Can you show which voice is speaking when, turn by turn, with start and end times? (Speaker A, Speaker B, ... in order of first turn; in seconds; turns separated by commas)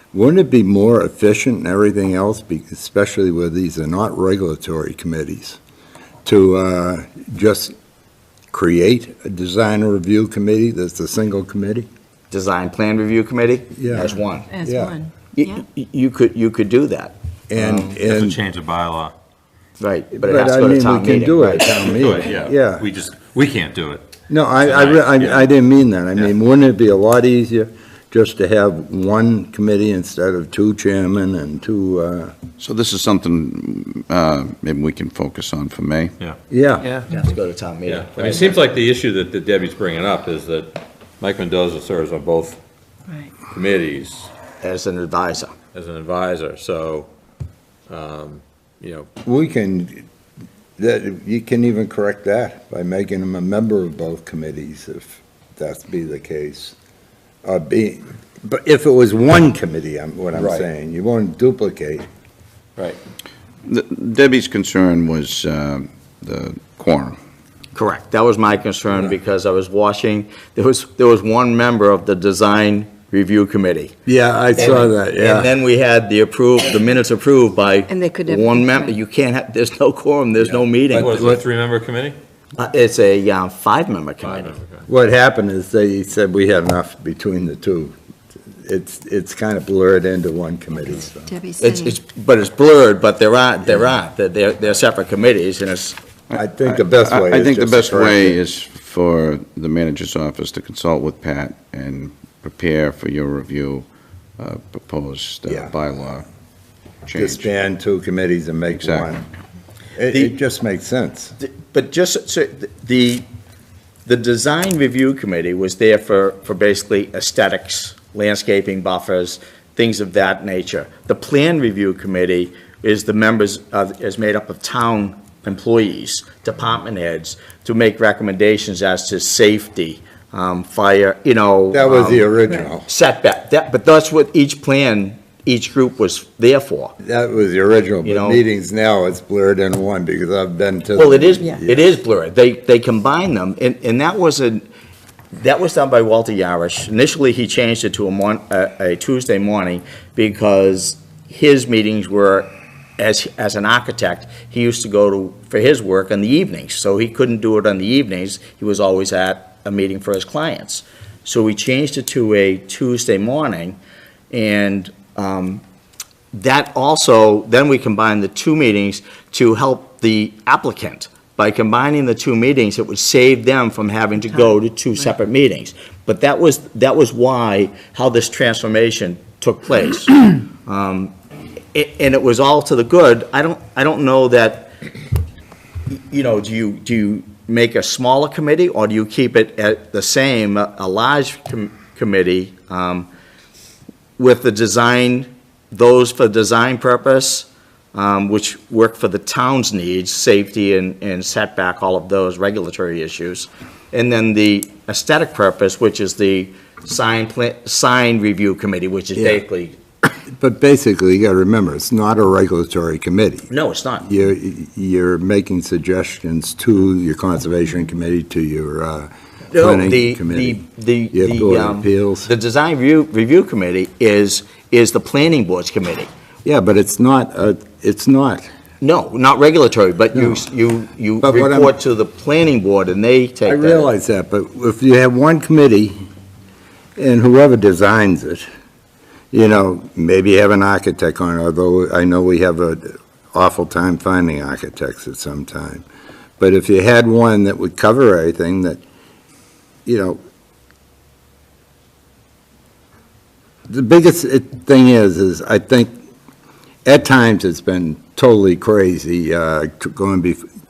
Speaker A: 0.1-5.6, Speaker A: 6.2-7.7, Speaker A: 8.5-11.9, Speaker B: 12.3-14.5, Speaker A: 13.8-15.0, Speaker C: 14.5-15.5, Speaker B: 15.3-17.7, Speaker A: 17.5-18.4, Speaker D: 17.8-19.1, Speaker B: 19.8-21.9, Speaker A: 20.1-22.9, Speaker D: 21.9-24.1, Speaker A: 24.3-32.4, Speaker D: 24.6-25.5, Speaker E: 32.6-36.1, Speaker A: 36.5-37.0, Speaker B: 37.1-38.6, Speaker D: 37.9-42.6, Speaker D: 43.5-44.3, Speaker B: 44.6-45.5, Speaker D: 45.7-47.1, Speaker D: 47.9-49.1, Speaker A: 49.2-50.0, Speaker A: 50.8-56.7, Speaker A: 57.4-62.0, Speaker D: 60.3-60.7, Speaker E: 63.6-67.2, Speaker B: 67.7-73.9, Speaker A: 74.0-75.5, Speaker B: 74.5-81.2, Speaker C: 77.9-79.0, Speaker A: 80.9-81.4, Speaker D: 80.9-82.2, Speaker B: 82.6-84.6, Speaker D: 84.2-84.8, Speaker A: 84.9-87.9, Speaker A: 88.6-91.3, Speaker C: 91.3-92.0, Speaker B: 91.6-96.0, Speaker E: 96.3-103.8, Speaker A: 96.3-98.4, Speaker E: 104.4-106.2, Speaker A: 105.5-105.7, Speaker E: 107.0-107.5, Speaker A: 107.2-109.2, Speaker E: 108.7-109.1, Speaker A: 110.0-111.3, Speaker B: 111.4-113.2, Speaker B: 114.0-136.9, Speaker A: 131.7-132.9, Speaker A: 137.0-141.9, Speaker B: 138.0-138.4, Speaker B: 140.9-144.6, Speaker B: 145.3-163.8, Speaker B: 164.3-165.6, Speaker B: 166.3-181.1, Speaker B: 181.7-184.8, Speaker B: 185.9-193.1, Speaker B: 194.2-209.8, Speaker A: 209.1-209.4, Speaker A: 210.3-213.5, Speaker B: 213.5-214.1, Speaker A: 214.0-222.3, Speaker B: 219.5-226.1, Speaker A: 226.4-228.4, Speaker B: 228.8-233.9, Speaker A: 230.1-230.4, Speaker A: 231.2-231.7, Speaker A: 233.4-235.9, Speaker A: 237.0-238.4, Speaker A: 239.3-245.8, Speaker A: 246.4-248.8, Speaker A: 249.8-250.2, Speaker A: 253.7-255.9, Speaker A: 256.8-260.4